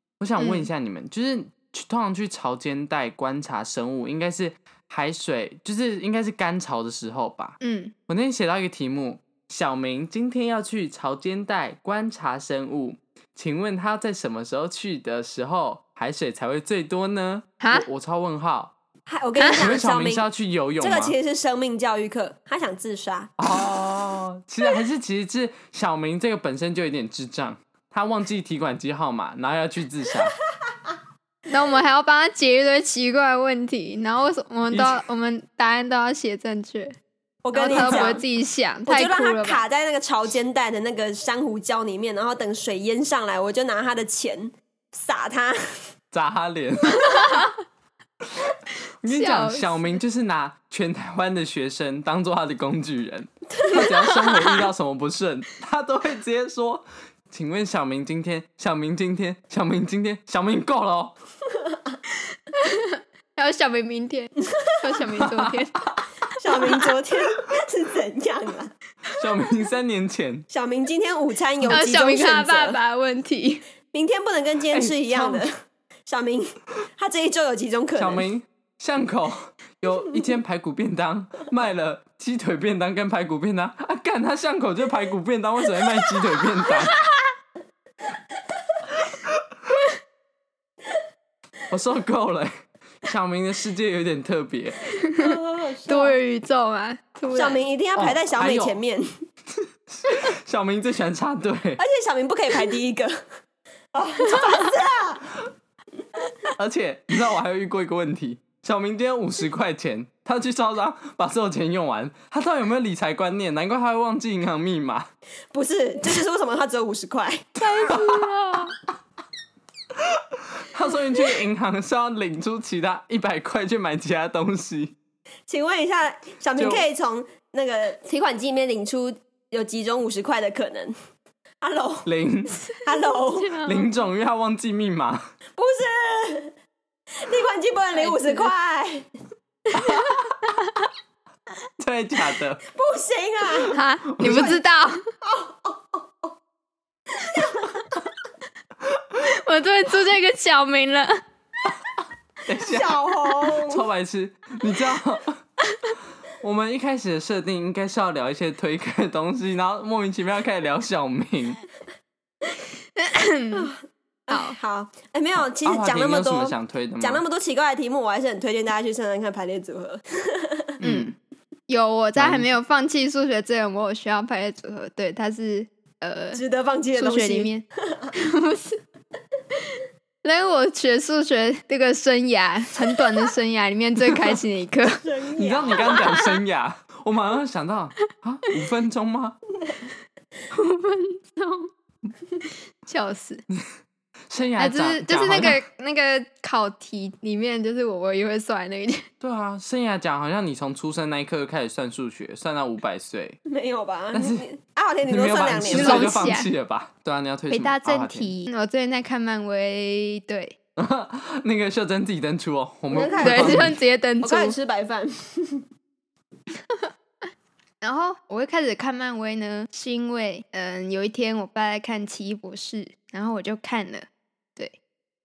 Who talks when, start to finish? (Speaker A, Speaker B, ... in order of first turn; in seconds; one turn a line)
Speaker A: 0.2-7.6
Speaker B: 0.4-0.7
Speaker B: 7.6-7.9
Speaker A: 8.1-18.7
Speaker B: 17.6-17.9
Speaker C: 19.1-20.3
Speaker B: 19.4-19.6
Speaker A: 19.5-21.1
Speaker C: 20.8-23.3
Speaker A: 23.4-30.3
Speaker B: 31.5-36.9
Speaker A: 34.7-35.0
Speaker C: 37.4-38.2
Speaker B: 37.5-39.6
Speaker A: 37.7-38.1
Speaker C: 38.9-45.6
Speaker A: 46.1-47.3
Speaker A: 49.0-61.1
Speaker B: 49.0-50.0
Speaker B: 53.8-54.6
Speaker B: 62.5-65.8
Speaker A: 65.2-66.0
Speaker C: 66.4-68.7
Speaker A: 69.1-70.5
Speaker C: 70.5-72.8
Speaker B: 71.7-73.6
Speaker C: 73.9-75.5
Speaker A: 74.7-75.5
Speaker C: 76.0-78.2
Speaker A: 78.0-87.0
Speaker B: 86.6-87.0
Speaker A: 89.1-89.4
Speaker A: 91.7-92.5
Speaker A: 93.0-94.9
Speaker B: 94.8-95.3
Speaker C: 95.2-96.2
Speaker B: 95.8-97.6
Speaker C: 97.3-99.1
Speaker A: 97.9-98.8
Speaker A: 99.9-101.8
Speaker C: 101.8-103.1
Speaker C: 103.9-105.3
Speaker A: 106.6-115.1
Speaker C: 115.5-117.6
Speaker B: 117.6-118.7
Speaker A: 117.8-118.3
Speaker A: 119.9-124.9
Speaker C: 125.5-130.9
Speaker A: 126.5-126.8
Speaker C: 131.6-132.1
Speaker A: 132.1-132.6
Speaker C: 132.8-133.7
Speaker B: 132.9-133.8
Speaker A: 133.6-135.3
Speaker C: 135.6-136.5
Speaker C: 137.2-139.0
Speaker B: 137.9-138.5
Speaker B: 139.7-140.5
Speaker A: 139.8-140.2
Speaker A: 141.8-142.6
Speaker C: 142.7-144.6
Speaker B: 143.7-145.0
Speaker A: 144.1-144.6
Speaker C: 145.2-146.0
Speaker C: 147.2-148.0
Speaker B: 149.2-151.2
Speaker A: 152.4-155.4
Speaker C: 152.7-153.9
Speaker A: 156.4-161.6
Speaker B: 163.0-163.7
Speaker C: 164.3-170.7
Speaker B: 164.3-164.6
Speaker A: 165.3-167.2
Speaker A: 170.8-171.1
Speaker B: 170.8-171.1
Speaker B: 171.7-176.4
Speaker A: 172.2-172.5
Speaker C: 176.3-177.9
Speaker B: 176.9-178.8
Speaker B: 180.2-185.0
Speaker A: 184.1-184.4
Speaker C: 184.9-186.1
Speaker A: 185.4-189.4
Speaker B: 185.7-186.3
Speaker B: 190.5-191.7
Speaker B: 192.8-193.4
Speaker A: 194.3-195.6
Speaker B: 194.6-199.0
Speaker A: 199.2-203.4
Speaker C: 203.4-206.3
Speaker A: 204.1-204.4
Speaker A: 205.1-208.3
Speaker B: 205.7-206.5
Speaker B: 207.5-210.6
Speaker A: 210.8-213.8
Speaker C: 212.9-215.6
Speaker B: 213.2-214.6
Speaker B: 217.8-224.8